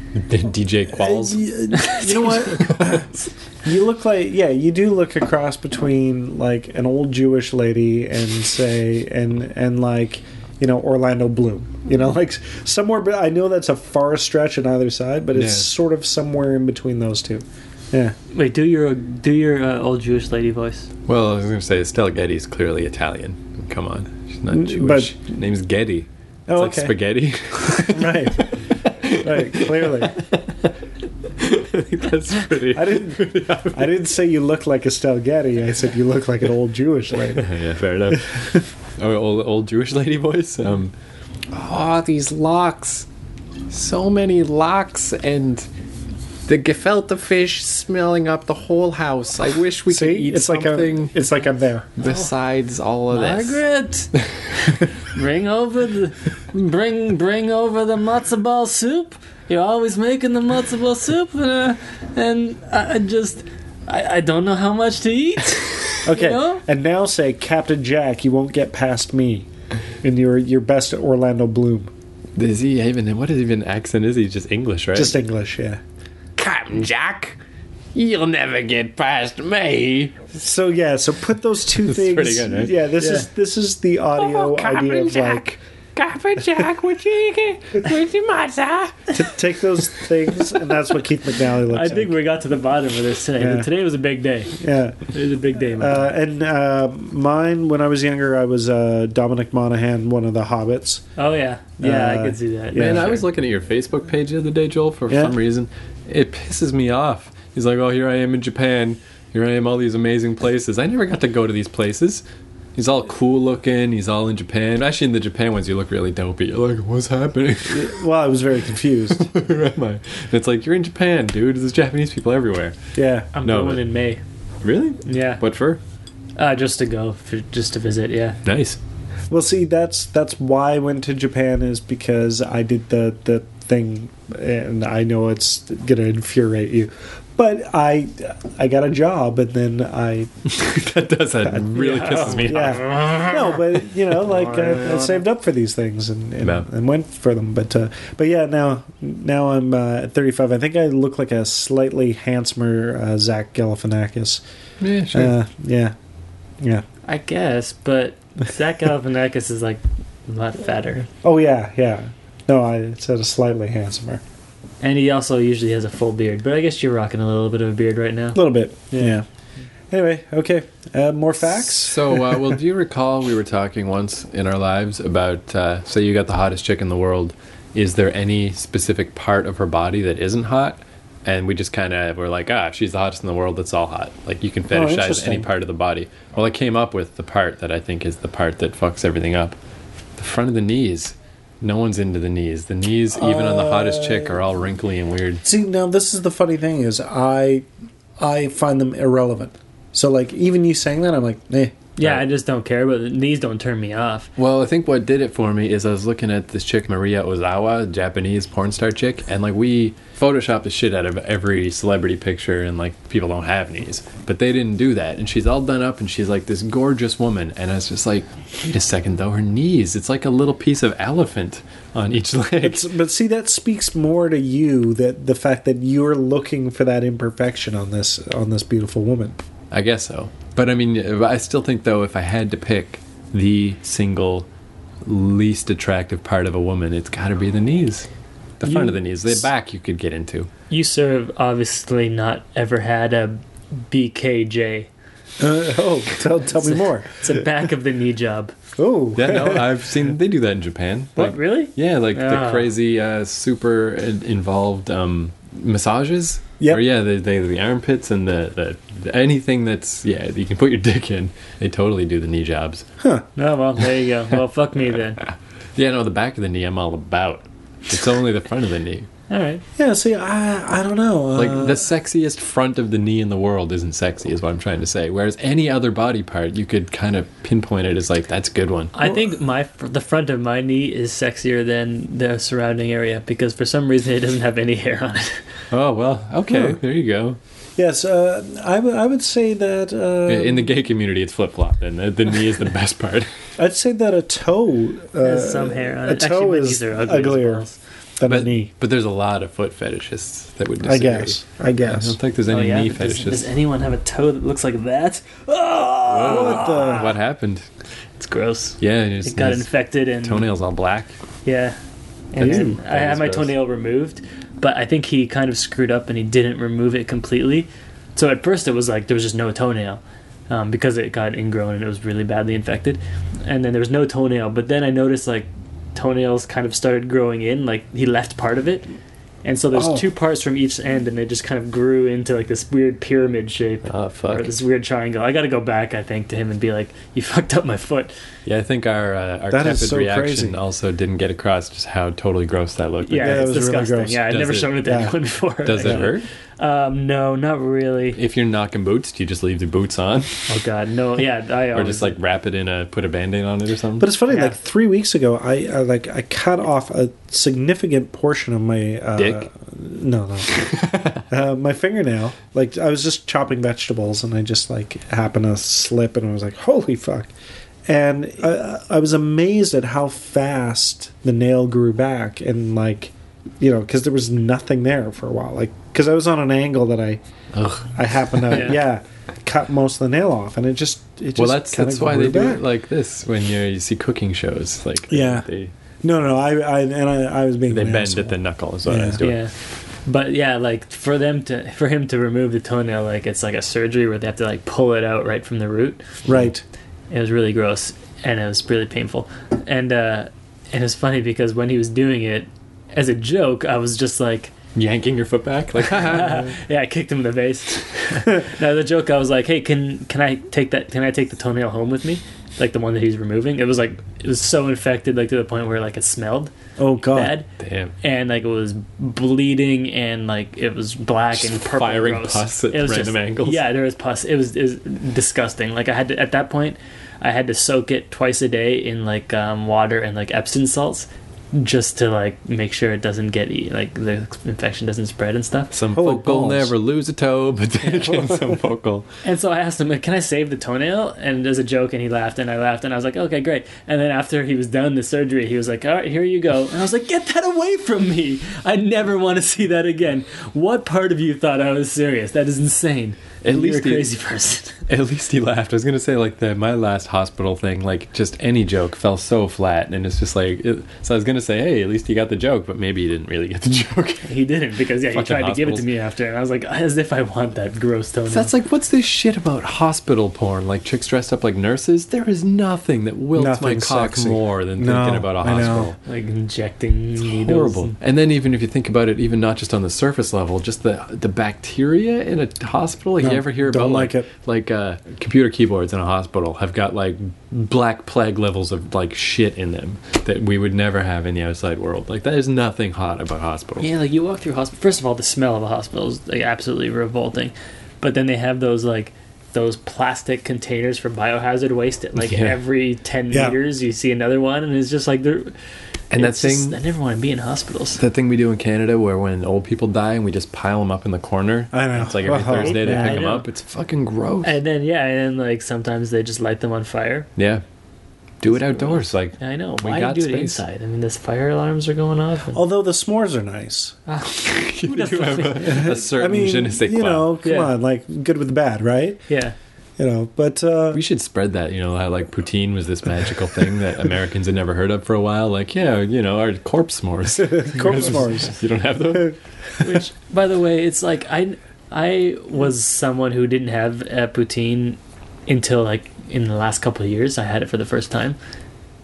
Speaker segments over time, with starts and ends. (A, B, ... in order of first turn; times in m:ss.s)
0:00.2-0:03.2 A
0:00.9-0:03.1 B
0:01.7-0:02.5 C
0:03.6-0:18.2 B
0:15.4-0:15.7 A
0:18.3-0:20.9 C
0:21.1-0:30.7 A
0:24.5-0:25.1 B
0:26.5-0:26.9 B
0:27.8-0:28.5 B
0:29.2-0:30.2 B
0:31.4-0:34.0 A
0:32.7-0:37.5 B
0:37.3-0:40.9 A
0:38.1-0:38.7 B
0:41.5-0:43.1 A
0:43.7-0:45.7 A
0:46.5-0:51.2 A
0:49.9-0:51.9 B
0:52.0-0:53.6 A
0:52.0-0:52.3 C
0:53.1-0:54.1 C
0:54.2-0:54.9 A
0:55.0-1:06.6 C
1:06.0-1:09.5 B
1:10.0-1:11.9 B
1:12.4-1:15.2 A
1:15.0-1:15.8 B
1:16.4-1:17.4 A
1:18.0-1:20.3 A
1:20.3-1:25.6 B
1:21.8-1:22.8 A
1:23.0-1:23.3 C
1:24.2-1:29.2 A
1:29.1-1:32.2 B
1:31.7-1:34.6 C
1:33.4-1:33.7 B
1:34.6-1:35.0 B
1:35.1-1:36.1 C
1:35.7-1:41.0 B
1:41.2-1:43.2 C
1:41.8-1:43.1 B
1:42.7-1:52.2 A
1:45.1-1:45.4 B
1:52.8-1:58.0 A
1:57.7-1:59.3 B
1:59.1-2:02.8 A
2:03.0-2:03.3 B
2:03.3-2:04.2 C
2:03.4-2:03.9 A
2:04.6-2:05.8 A
2:05.0-2:05.4 C
2:06.4-2:08.4 C
2:08.4-2:08.8 A
2:09.3-2:20.3 B
2:20.5-2:23.8 A
2:21.5-2:34.4 B
2:21.8-2:23.0 C
2:26.4-2:26.7 A
2:34.8-2:35.3 A
2:35.1-2:36.0 B
2:37.1-2:41.1 C
2:41.2-2:44.2 B
2:44.8-2:49.1 C
2:48.4-2:49.2 B
2:49.9-2:52.4 B
2:51.5-3:09.6 A
3:04.7-3:05.5 B
3:10.2-3:15.4 A
3:13.2-3:14.4 B
3:15.4-3:17.7 B
3:18.2-3:21.8 B
3:22.0-3:24.3 C
3:24.4-3:42.9 A
3:42.6-3:49.4 B
3:49.7-3:54.5 A
3:55.0-3:58.1 A
3:58.6-4:00.5 A
3:58.6-3:59.0 B
4:00.7-4:04.9 C
4:05.4-4:07.3 B
4:06.6-4:08.5 C
4:08.8-4:09.7 B
4:09.2-4:22.9 A
4:11.2-4:12.7 C
4:23.0-4:23.3 B
4:23.4-4:25.2 C
4:25.8-4:29.1 A
4:29.3-4:29.6 C
4:29.8-4:31.8 B
4:31.4-4:38.9 A
4:38.9-4:45.4 C
4:45.7-4:47.4 A
4:46.5-4:46.8 B
4:47.8-4:50.8 B
4:50.3-4:53.3 A
4:53.6-4:57.6 B
4:55.2-4:57.8 C
4:58.2-4:58.7 B
4:58.3-5:03.5 A
5:00.8-5:02.2 B
5:02.5-5:07.1 C
5:06.1-5:07.7 A
5:06.1-5:07.2 B
5:08.2-5:10.5 C
5:08.8-5:11.2 A
5:11.4-5:11.8 C
5:12.3-5:28.9 C
5:12.4-5:12.8 B
5:12.4-5:13.6 A
5:29.4-5:38.1 C
5:29.7-5:30.0 B
5:33.9-5:34.6 A
5:38.4-5:43.6 A
5:39.5-5:40.6 B
5:43.0-5:48.2 C
5:43.2-5:44.2 B
5:44.3-5:45.0 A
5:44.8-5:45.1 B
5:45.6-5:46.2 A
5:45.8-5:46.1 B
5:48.2-5:50.4 A
5:50.5-5:52.2 C
5:51.7-5:54.1 A
5:54.0-6:07.3 B
5:54.3-5:54.6 C
5:59.2-5:59.4 A
6:00.6-6:01.2 A
6:07.9-6:17.2 B
6:17.5-6:18.7 A
6:18.0-6:22.6 B
6:21.4-6:25.7 A
6:25.1-6:25.5 B
6:26.0-6:29.2 B
6:27.7-6:29.4 A
6:29.2-6:29.5 C
6:30.1-6:36.1 C
6:36.3-6:36.6 B
6:37.1-6:44.5 C
6:44.8-6:46.5 A
6:45.9-6:56.5 C
6:56.8-6:57.4 B
6:57.1-6:57.5 C
6:57.6-6:57.9 A
6:58.0-7:15.7 C
7:01.3-7:03.6 A
7:15.7-7:19.1 A
7:15.9-7:16.7 B
7:18.0-7:18.6 B
7:19.2-7:34.8 C
7:33.4-7:34.1 A
7:34.9-7:44.3 A
7:44.2-7:48.5 C
7:45.0-7:45.9 A
7:48.3-7:56.0 A
7:53.4-7:55.9 B
7:56.1-7:58.0 C
7:57.2-8:13.9 A
8:03.2-8:04.3 B
8:13.8-8:25.5 C
8:22.2-8:22.6 A
8:23.3-8:23.6 B
8:26.1-8:26.8 A
8:26.2-8:28.0 C
8:28.0-8:34.6 A
8:31.7-8:33.3 B
8:32.5-8:33.5 C
8:34.4-8:37.3 C
8:37.4-8:37.6 A
8:38.4-8:40.6 A
8:38.6-8:42.6 C
8:42.5-8:44.0 B
8:44.1-8:45.9 C
8:44.4-8:47.4 A
8:45.6-8:49.2 B
8:47.4-8:47.7 C
8:49.3-8:49.6 C
8:50.0-8:51.0 B
8:50.9-8:59.4 A
8:57.4-8:58.5 B
8:59.8-9:08.4 C